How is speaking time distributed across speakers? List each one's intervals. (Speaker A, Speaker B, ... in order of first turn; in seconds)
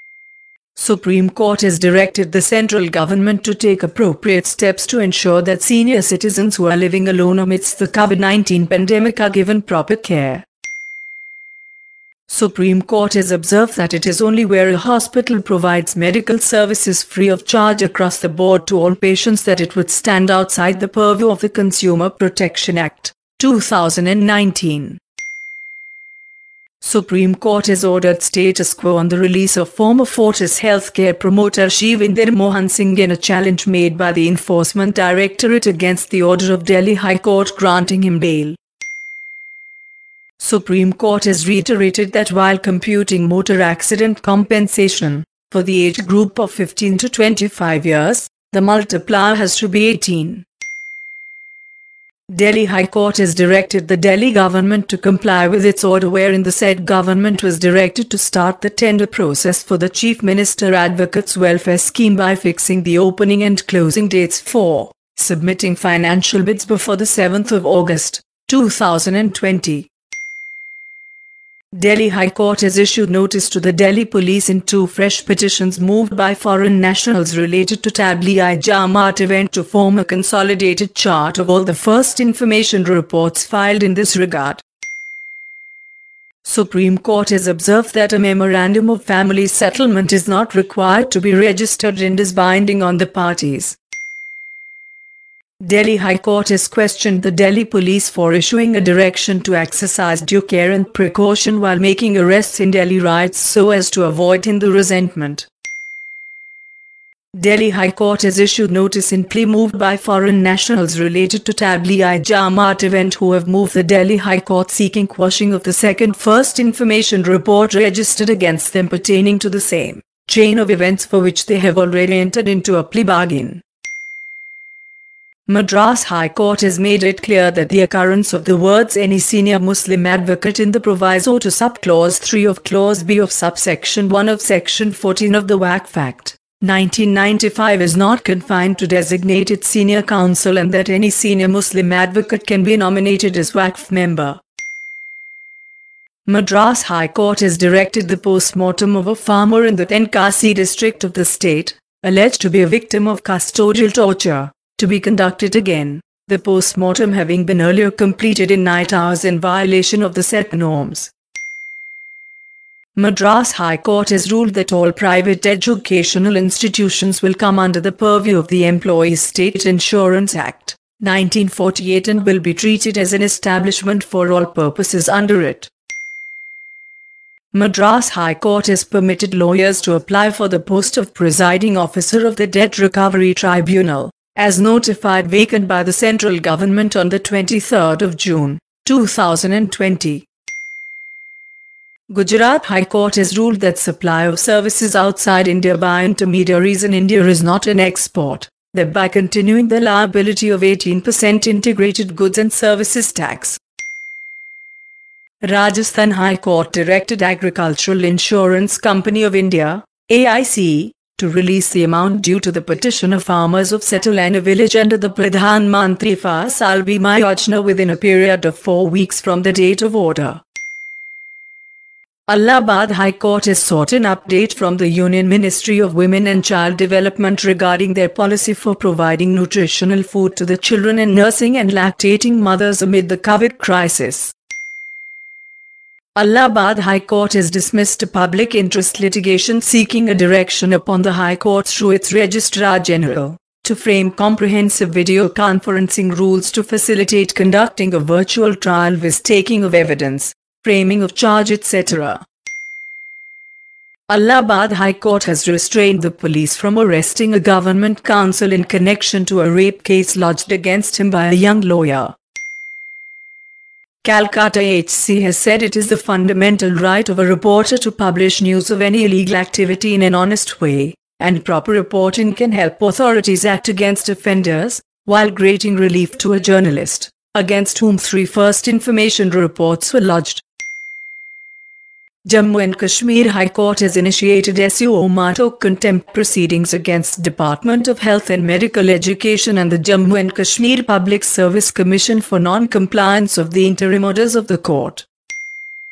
Speaker A: 0.8-10.4, 12.3-25.0, 26.8-38.6, 40.4-50.4, 52.3-69.9, 71.7-84.6, 86.4-93.8, 95.6-105.5, 107.3-123.6, 125.5-144.4, 146.2-161.1, 162.9-175.7, 177.5-190.3, 192.1-203.6, 205.4-220.4, 222.3-234.3, 236.2-252.2, 254.1-262.1, 264.0-280.4, 282.2-295.1